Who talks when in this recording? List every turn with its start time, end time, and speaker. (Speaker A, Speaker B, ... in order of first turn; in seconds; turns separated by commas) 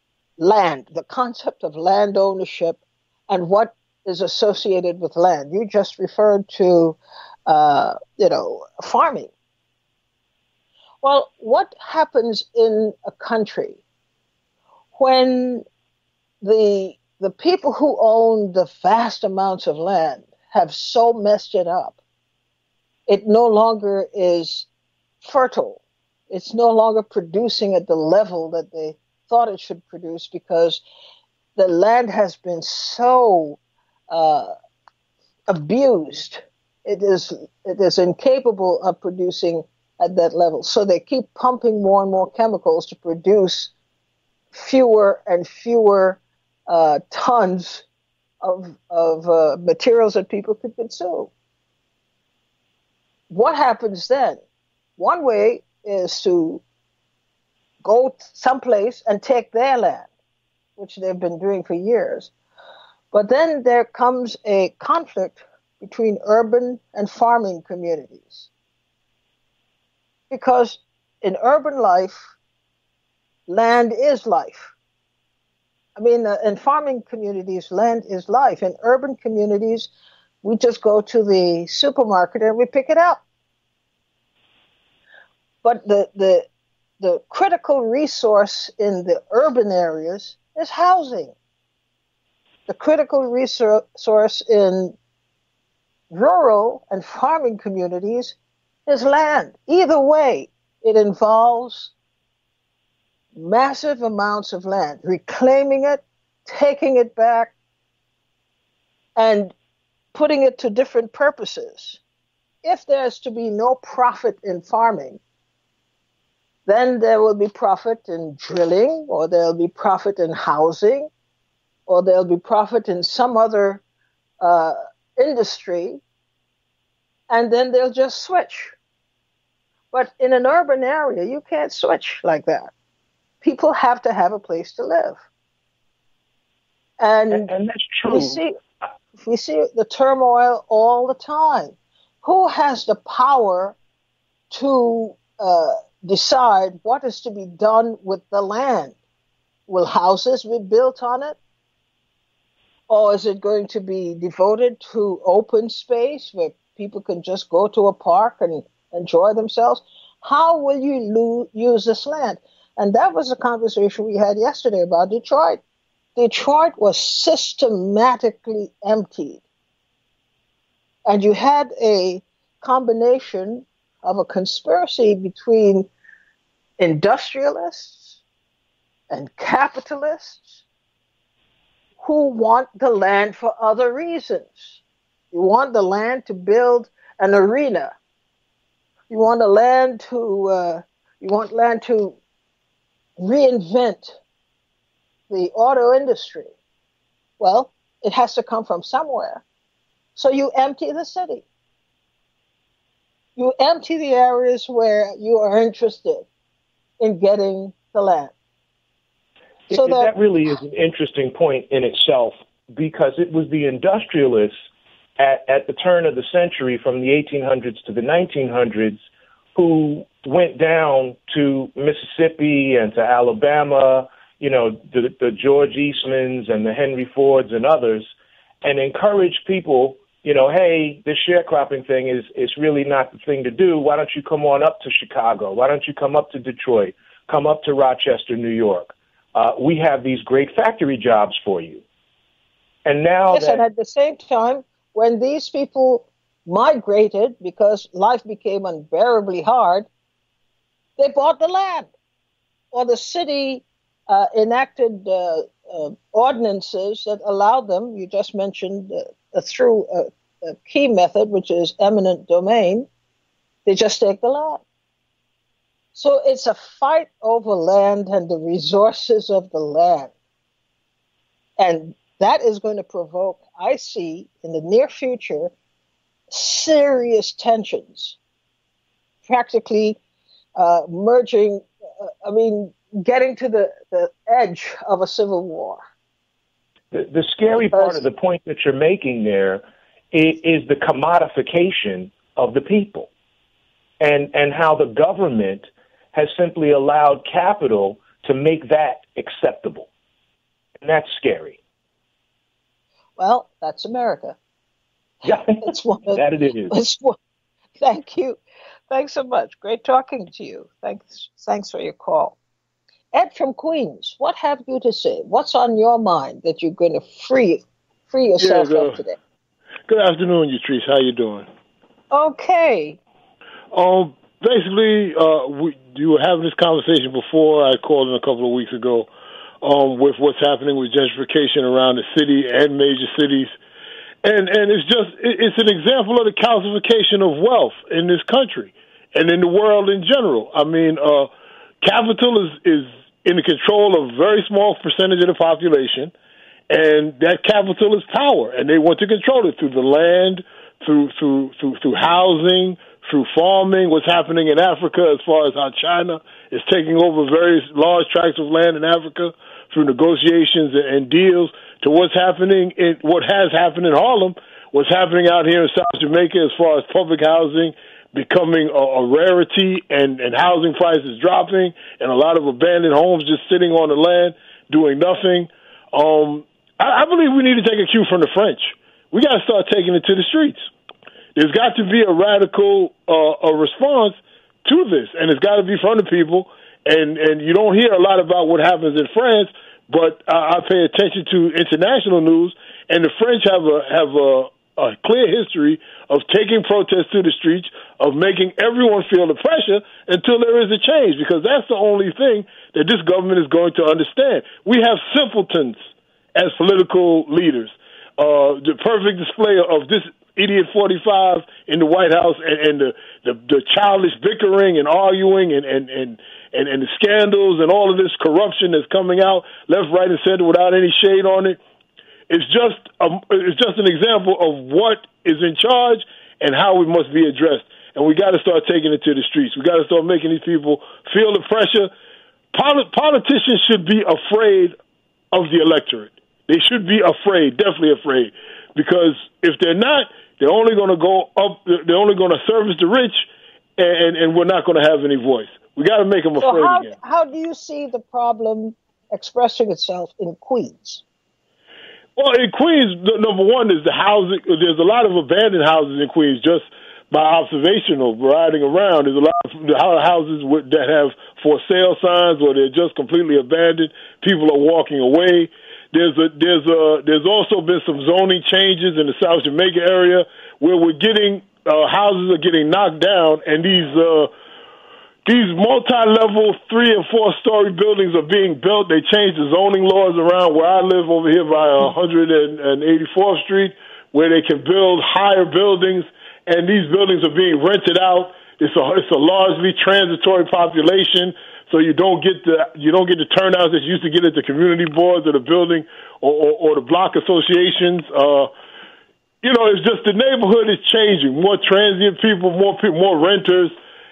Speaker A: 0.4-9.3, Speaker A: 11.0-13.8, Speaker A: 14.9-15.7, Speaker A: 16.4-22.0, Speaker A: 23.1-24.7, Speaker A: 25.2-30.8, Speaker A: 31.6-33.6, Speaker A: 34.1-34.5, Speaker A: 35.5-43.7, Speaker A: 44.5-47.9, Speaker A: 48.4-51.3, Speaker A: 53.3-54.4, Speaker A: 55.0-56.6, Speaker A: 57.8-60.1, Speaker A: 60.8-62.3, Speaker A: 63.1-68.5, Speaker A: 70.3-72.3, Speaker A: 73.5-74.7, Speaker A: 76.0-79.9, Speaker A: 80.4-83.2, Speaker A: 85.6-86.5, Speaker A: 87.0-91.3, Speaker A: 92.7-95.0, Speaker A: 96.1-98.4, Speaker A: 98.9-101.9, Speaker A: 103.3-107.5, Speaker A: 109.2-109.5, Speaker A: 110.1-112.0, Speaker A: 112.6-115.2, Speaker A: 116.7-121.1, Speaker A: 121.9-123.8, Speaker A: 124.4-126.0, Speaker A: 127.3-128.7, Speaker A: 129.9-132.7, Speaker A: 133.4-135.2, Speaker A: 137.0-137.5, Speaker B: 137.3-138.4, Speaker A: 138.1-138.6, Speaker A: 139.2-143.8, Speaker A: 144.5-149.0, Speaker A: 149.7-151.4, Speaker A: 152.9-165.6, Speaker A: 166.2-169.4, Speaker A: 171.1-175.9, Speaker A: 176.8-178.2, Speaker A: 179.1-180.6, Speaker A: 182.0-184.8, Speaker A: 185.3-187.9, Speaker A: 189.1-192.2, Speaker A: 193.2-194.2, Speaker A: 195.3-196.5, Speaker A: 197.4-199.4, Speaker A: 200.2-201.4, Speaker A: 203.4-206.3, Speaker A: 207.0-208.3, Speaker B: 209.7-214.6, Speaker A: 209.7-210.1, Speaker B: 215.2-219.0, Speaker B: 219.6-228.1, Speaker B: 228.6-241.8, Speaker B: 242.9-243.6, Speaker A: 243.3-249.9, Speaker A: 251.0-251.9, Speaker A: 252.7-262.9, Speaker A: 263.7-264.6, Speaker A: 265.9-270.1, Speaker A: 271.6-275.5, Speaker A: 276.3-278.2, Speaker A: 279.2-280.0, Speaker A: 280.6-285.8, Speaker B: 286.9-293.1, Speaker A: 287.7-288.0, Speaker B: 294.0-299.9, Speaker B: 300.8-301.6, Speaker A: 303.2-304.4, Speaker B: 305.2-306.8, Speaker A: 305.2-307.2, Speaker A: 307.8-308.4, Speaker A: 308.9-312.4, Speaker A: 313.1-319.2, Speaker C: 318.4-319.0, Speaker C: 319.9-321.5, Speaker A: 322.1-323.0, Speaker C: 323.7-329.1, Speaker C: 329.6-333.5, Speaker C: 334.2-341.3, Speaker C: 341.8-346.1, Speaker C: 346.7-380.7, Speaker C: 381.4-405.8, Speaker C: 406.4-421.6, Speaker C: 422.3-431.9, Speaker C: 432.5-434.8, Speaker C: 435.3-446.9, Speaker A: 446.4-451.0, Speaker C: 452.2-474.3, Speaker C: 475.2-498.5, Speaker C: 499.4-503.7